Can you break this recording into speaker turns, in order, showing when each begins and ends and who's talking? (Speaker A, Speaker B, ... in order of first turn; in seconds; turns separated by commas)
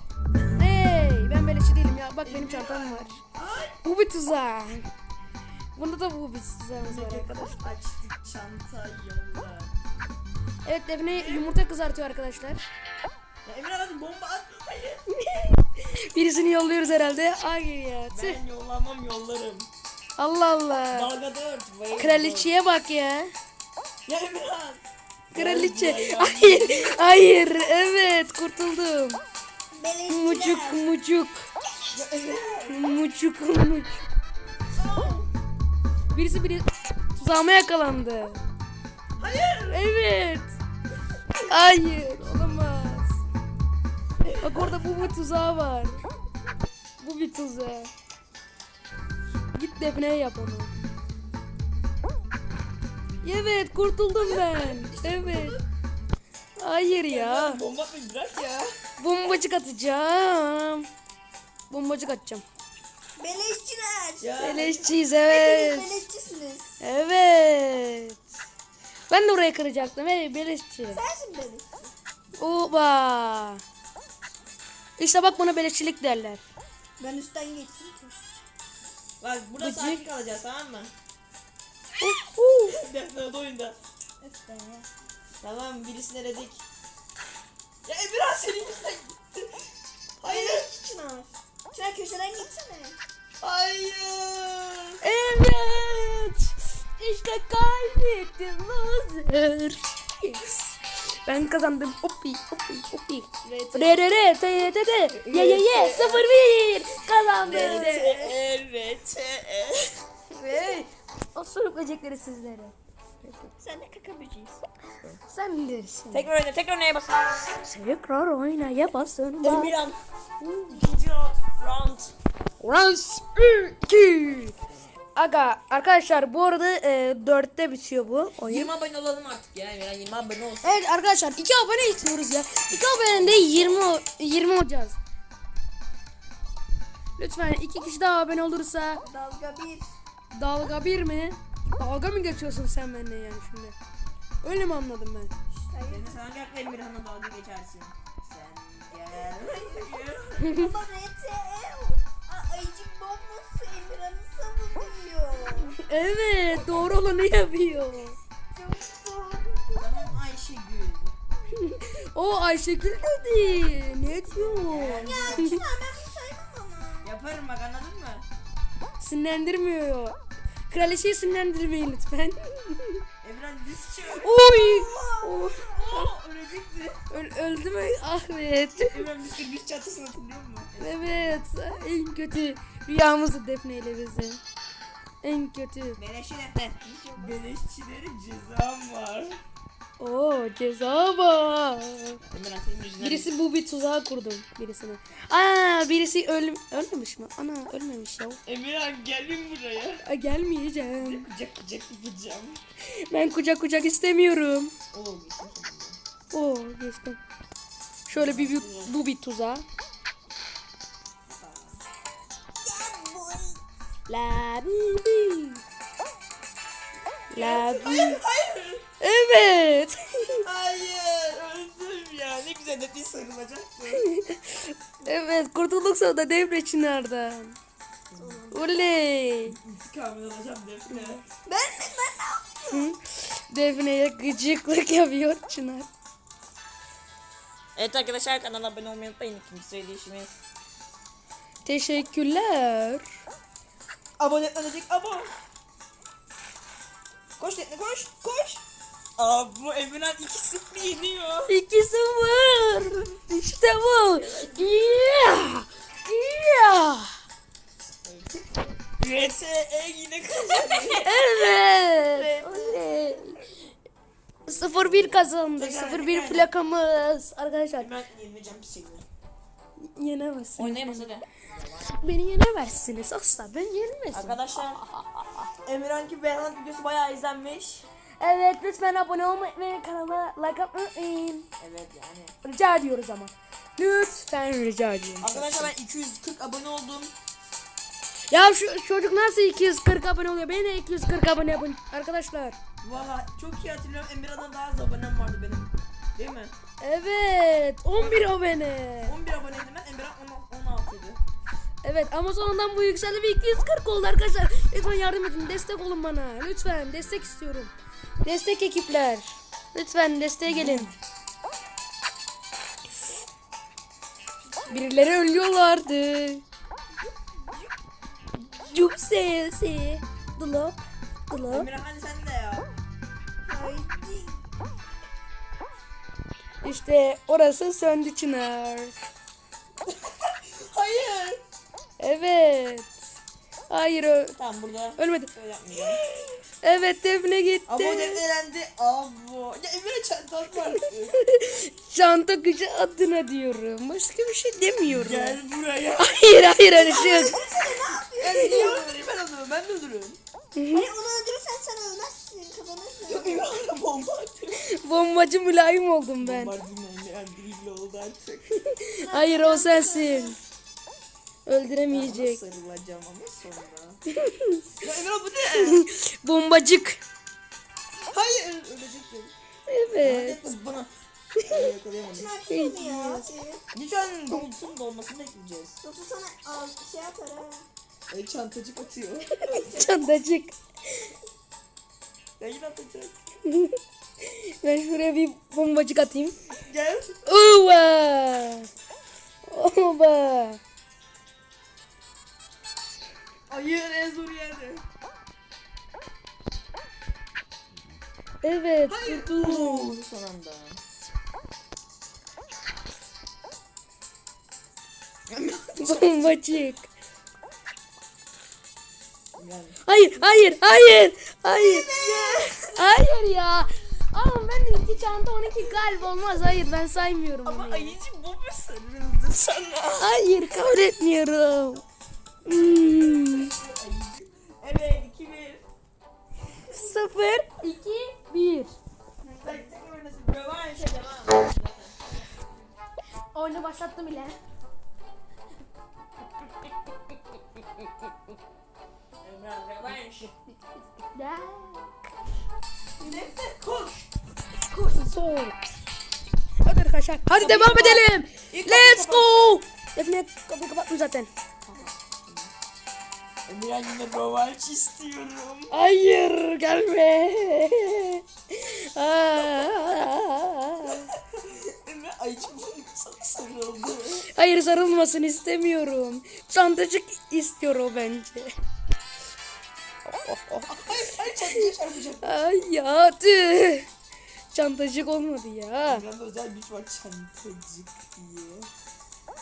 Speaker A: 0.6-3.2, Speaker B: 2.2-3.8, Speaker A: 3.8-4.9, Speaker A: 5.8-7.8, Speaker B: 6.8-9.7, Speaker A: 10.6-12.7, Speaker B: 11.1-11.5, Speaker B: 13.4-15.1, Speaker A: 15.3-18.4, Speaker B: 18.1-19.7, Speaker A: 20.2-21.1, Speaker B: 20.9-22.5, Speaker A: 22.0-23.3, Speaker B: 24.1-27.0, Speaker A: 25.3-29.2, Speaker C: 29.7-30.8, Speaker A: 30.1-31.5, Speaker B: 31.9-33.0, Speaker A: 32.7-34.0, Speaker B: 34.7-35.3, Speaker A: 36.1-38.4, Speaker B: 39.2-39.8, Speaker A: 39.7-40.5, Speaker A: 41.5-43.2, Speaker B: 44.2-45.1, Speaker A: 44.4-46.0, Speaker A: 47.0-47.9, Speaker A: 49.5-50.7, Speaker A: 53.2-55.6, Speaker B: 54.2-55.6, Speaker A: 56.6-57.6, Speaker B: 57.1-58.7, Speaker A: 59.0-60.9, Speaker A: 61.7-62.5, Speaker C: 63.2-64.7, Speaker B: 64.2-64.9, Speaker A: 64.4-66.0, Speaker C: 65.3-66.8, Speaker A: 66.8-68.2, Speaker A: 69.1-71.0, Speaker C: 70.9-71.9, Speaker A: 72.4-73.6, Speaker A: 75.0-76.4, Speaker C: 77.0-78.2, Speaker B: 79.2-80.9, Speaker A: 79.6-80.0, Speaker A: 82.0-82.8, Speaker B: 82.7-83.8, Speaker C: 84.2-84.9, Speaker B: 85.4-86.6, Speaker B: 87.8-89.7, Speaker B: 90.2-90.7, Speaker C: 90.2-93.0, Speaker B: 93.4-95.0, Speaker A: 95.0-108.3, Speaker B: 103.4-104.0, Speaker B: 105.1-106.3, Speaker B: 107.4-110.0, Speaker A: 110.3-112.8, Speaker B: 113.2-115.2, Speaker A: 115.3-116.3, Speaker B: 116.1-117.5, Speaker A: 117.6-119.7, Speaker B: 119.4-120.0, Speaker A: 120.4-120.9, Speaker B: 120.7-122.2, Speaker A: 122.6-124.5, Speaker A: 125.2-128.7, Speaker B: 128.4-130.8, Speaker A: 130.6-135.0, Speaker B: 132.7-134.0, Speaker A: 137.2-139.0, Speaker C: 139.0-139.9, Speaker A: 140.3-143.8, Speaker A: 144.4-145.3, Speaker C: 145.5-146.2, Speaker B: 145.8-150.6, Speaker C: 149.3-155.8, Speaker A: 150.4-150.7, Speaker A: 155.8-158.2, Speaker C: 158.5-160.2, Speaker B: 159.8-161.2, Speaker A: 161.5-165.6, Speaker B: 164.4-165.5, Speaker C: 164.8-167.1, Speaker B: 167.0-168.3, Speaker A: 169.0-170.2, Speaker A: 170.7-173.0, Speaker B: 173.2-174.3, Speaker A: 174.2-176.0, Speaker C: 174.3-176.0, Speaker B: 175.7-177.0, Speaker A: 177.1-179.1, Speaker B: 178.8-181.4, Speaker A: 180.8-184.4, Speaker A: 185.2-186.0, Speaker B: 186.0-189.4, Speaker C: 186.8-187.4, Speaker A: 190.0-192.2, Speaker B: 192.2-193.3, Speaker A: 193.0-198.4, Speaker B: 198.4-200.0, Speaker A: 200.0-201.3, Speaker B: 201.0-202.6, Speaker A: 202.9-204.7, Speaker B: 204.9-206.0, Speaker A: 206.3-207.2, Speaker A: 208.1-209.7, Speaker B: 208.1-208.9, Speaker B: 211.3-211.8, Speaker C: 212.7-213.6, Speaker A: 214.1-215.6, Speaker A: 217.3-218.2, Speaker B: 217.3-218.9, Speaker A: 219.0-220.4, Speaker B: 220.4-224.1, Speaker A: 223.9-227.6, Speaker B: 228.1-228.4, Speaker C: 228.2-228.9, Speaker A: 228.5-229.6, Speaker B: 229.4-231.2, Speaker A: 230.9-231.2, Speaker C: 231.4-232.9, Speaker A: 232.7-235.9, Speaker B: 237.8-240.4, Speaker A: 241.6-243.1, Speaker B: 244.2-245.3, Speaker B: 247.4-248.6, Speaker B: 249.2-251.6, Speaker A: 251.5-257.2, Speaker B: 254.0-255.2, Speaker B: 258.0-261.3, Speaker A: 260.9-263.4, Speaker B: 261.9-263.2, Speaker A: 264.5-267.9, Speaker B: 264.5-266.5, Speaker B: 267.8-269.1, Speaker A: 269.8-271.1, Speaker B: 270.6-271.9, Speaker A: 271.8-275.3, Speaker B: 274.1-274.8, Speaker B: 275.6-277.9, Speaker A: 278.2-281.5, Speaker B: 281.6-282.4, Speaker A: 282.4-285.7, Speaker B: 285.2-287.1, Speaker A: 288.3-292.6, Speaker B: 292.8-296.5, Speaker A: 296.8-299.2, Speaker B: 298.0-298.3, Speaker B: 299.1-301.2, Speaker A: 301.8-310.9, Speaker B: 310.5-310.9, Speaker C: 314.4-315.1, Speaker A: 314.7-316.4, Speaker A: 318.5-321.7, Speaker B: 321.5-322.7, Speaker C: 323.4-324.5, Speaker A: 326.6-328.9, Speaker B: 329.9-331.4, Speaker A: 332.0-332.9, Speaker A: 333.7-334.4, Speaker B: 334.4-336.0, Speaker A: 335.0-335.3, Speaker A: 336.6-338.2, Speaker B: 337.7-341.2, Speaker A: 340.7-345.4, Speaker B: 344.9-346.6, Speaker A: 346.0-347.4, Speaker C: 346.7-349.0, Speaker B: 348.2-350.2, Speaker A: 350.6-350.9, Speaker C: 350.7-353.5, Speaker B: 353.1-354.7, Speaker A: 354.6-356.6, Speaker B: 356.2-358.5, Speaker A: 358.7-360.4, Speaker C: 359.0-360.4, Speaker A: 361.5-362.4, Speaker B: 361.9-364.0, Speaker A: 364.1-364.7, Speaker B: 364.8-365.9, Speaker A: 365.5-367.0, Speaker B: 368.1-369.3, Speaker A: 369.7-370.5, Speaker B: 370.0-372.3, Speaker C: 372.1-373.6, Speaker A: 372.5-373.3, Speaker B: 373.7-375.8, Speaker C: 375.8-377.7, Speaker B: 378.1-379.5, Speaker A: 379.4-380.6, Speaker C: 379.6-380.0, Speaker B: 382.4-383.2, Speaker A: 383.4-386.4, Speaker B: 386.5-387.2, Speaker A: 387.2-388.7, Speaker A: 389.4-390.6, Speaker B: 393.5-394.8, Speaker A: 398.4-400.0, Speaker B: 398.9-400.8, Speaker B: 405.3-406.6, Speaker A: 405.8-406.9, Speaker B: 409.4-409.8, Speaker A: 409.9-418.0, Speaker B: 411.6-412.6, Speaker C: 411.7-412.5, Speaker B: 417.4-420.2, Speaker A: 420.0-421.9, Speaker A: 422.4-423.5, Speaker B: 422.5-425.6, Speaker A: 426.7-428.7, Speaker C: 429.2-429.8, Speaker B: 429.4-432.4, Speaker A: 433.3-434.4, Speaker B: 439.2-440.3, Speaker A: 441.1-441.9, Speaker B: 443.0-444.1, Speaker A: 444.7-445.6, Speaker A: 446.6-451.3, Speaker B: 447.3-449.4, Speaker B: 451.6-452.5, Speaker B: 453.5-455.8, Speaker A: 455.7-461.1, Speaker B: 460.9-464.3, Speaker A: 464.3-468.5, Speaker A: 470.1-470.7, Speaker B: 470.7-472.3, Speaker A: 472.2-473.9, Speaker A: 474.5-476.1, Speaker B: 475.9-478.7